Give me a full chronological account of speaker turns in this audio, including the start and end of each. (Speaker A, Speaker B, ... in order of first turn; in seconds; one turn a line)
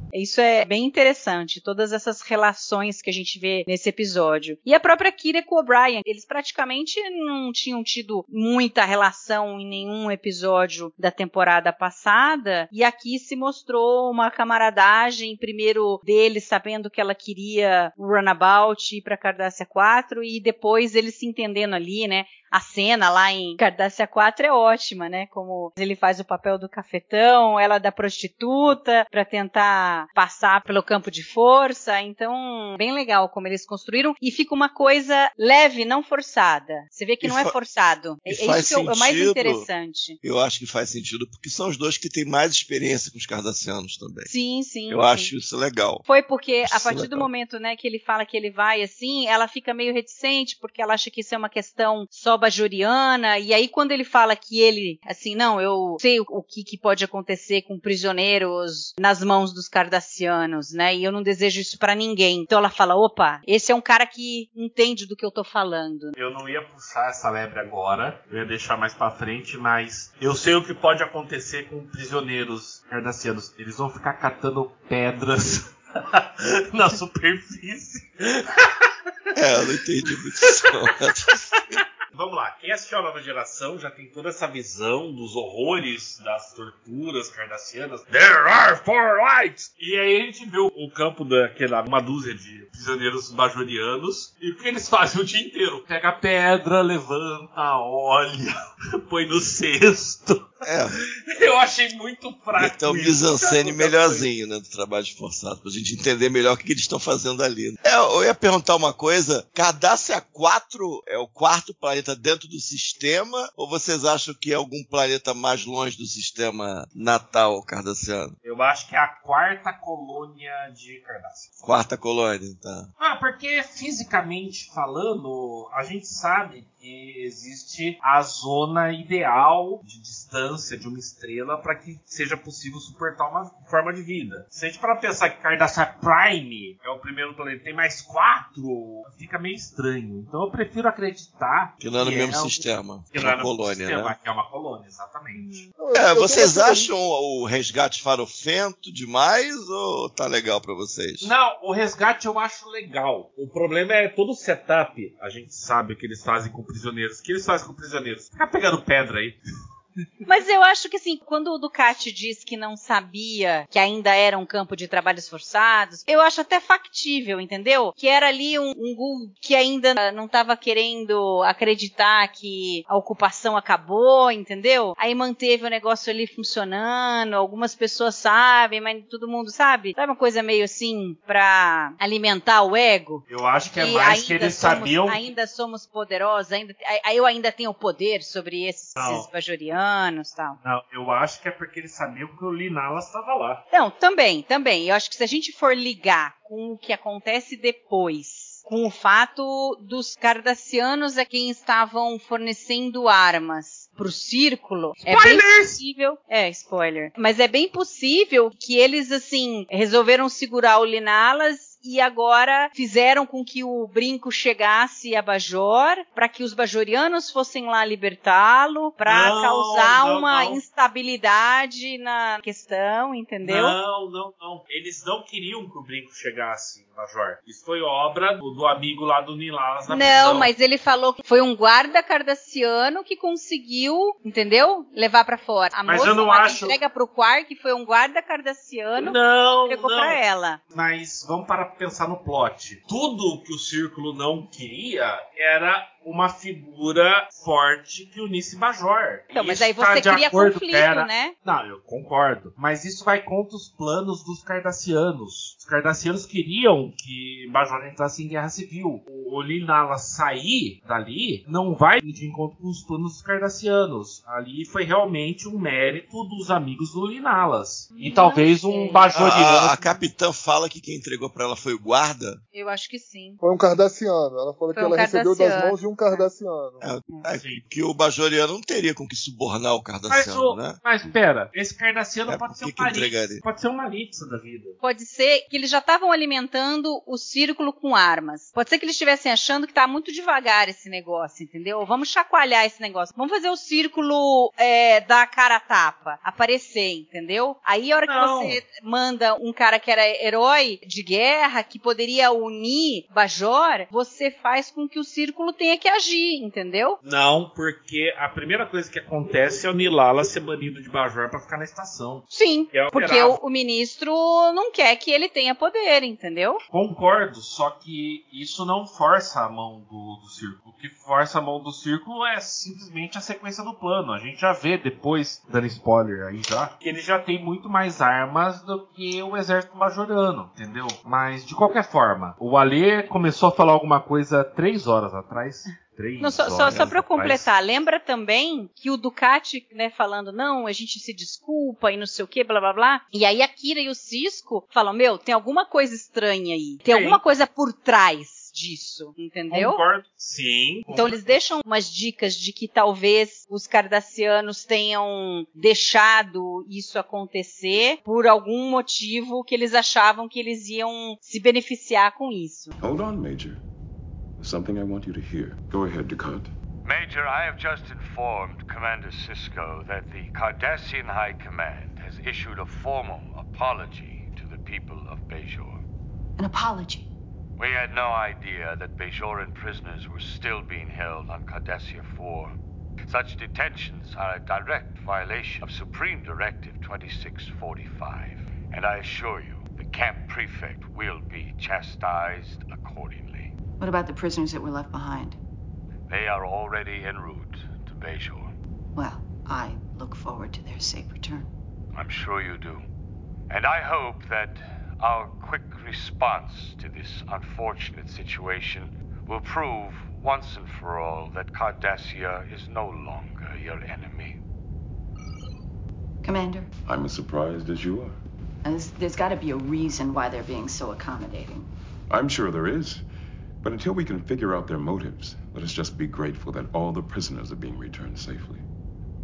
Speaker A: 0.1-40.2
Speaker B: 37.2-37.5
Speaker B: 38.3-39.7
Speaker B: 40.2-44.3
Speaker A: 44.3-45.3
Speaker B: 44.9-46.0
Speaker A: 46.1-66.2
Speaker B: 46.6-47.3
Speaker C: 66.2-78.9
Speaker B: 79.3-81.8
Speaker C: 81.7-104.3
Speaker B: 100.7-100.9
Speaker B: 102.5-118.3
Speaker C: 118.4-121.5
Speaker B: 121.6-122.9
Speaker C: 123.0-142.6
Speaker B: 141.8-144.1
Speaker C: 143.1-145.7
Speaker D: 145.7-146.9
Speaker B: 145.9-151.3
Speaker C: 151.2-159.4
Speaker A: 160.2-183.2
Speaker C: 183.3-185.2
Speaker A: 183.8-190.6
Speaker C: 189.0-189.3
Speaker C: 190.6-193.6
Speaker A: 193.7-223.8
Speaker C: 205.1-205.8
Speaker C: 219.1-220.6
Speaker C: 223.4-230.5
Speaker A: 229.9-239.2
Speaker C: 235.9-236.8
Speaker C: 239.0-240.2
Speaker A: 239.7-240.6
Speaker C: 240.7-269.8
Speaker A: 249.3-251.3
Speaker A: 268.0-269.1
Speaker B: 269.1-272.4
Speaker A: 272.5-273.4
Speaker D: 273.4-276.9
Speaker A: 274.7-276.2
Speaker B: 276.8-280.8
Speaker C: 277.4-277.6
Speaker C: 280.1-284.8
Speaker B: 282.3-283.4
Speaker A: 284.8-307.0
Speaker C: 298.1-298.6
Speaker C: 307.0-313.4
Speaker A: 312.3-316.6
Speaker C: 316.7-337.5
Speaker A: 336.2-349.8
Speaker B: 336.6-336.9
Speaker C: 346.9-347.2
Speaker C: 349.5-351.6
Speaker A: 350.9-362.7
Speaker E: 362.8-363.6
Speaker E: 364.4-366.5
Speaker F: 366.8-375.8
Speaker G: 376.4-377.1
Speaker F: 377.6-382.5
Speaker F: 383.1-393.6
Speaker G: 393.8-395.4
Speaker F: 396.1-398.5
Speaker G: 398.9-401.5
Speaker F: 401.9-402.8
Speaker F: 403.5-414.4
Speaker G: 416.2-416.7
Speaker E: 416.9-418.2
Speaker G: 418.6-421.7
Speaker E: 422.1-423.0
Speaker E: 423.6-428.6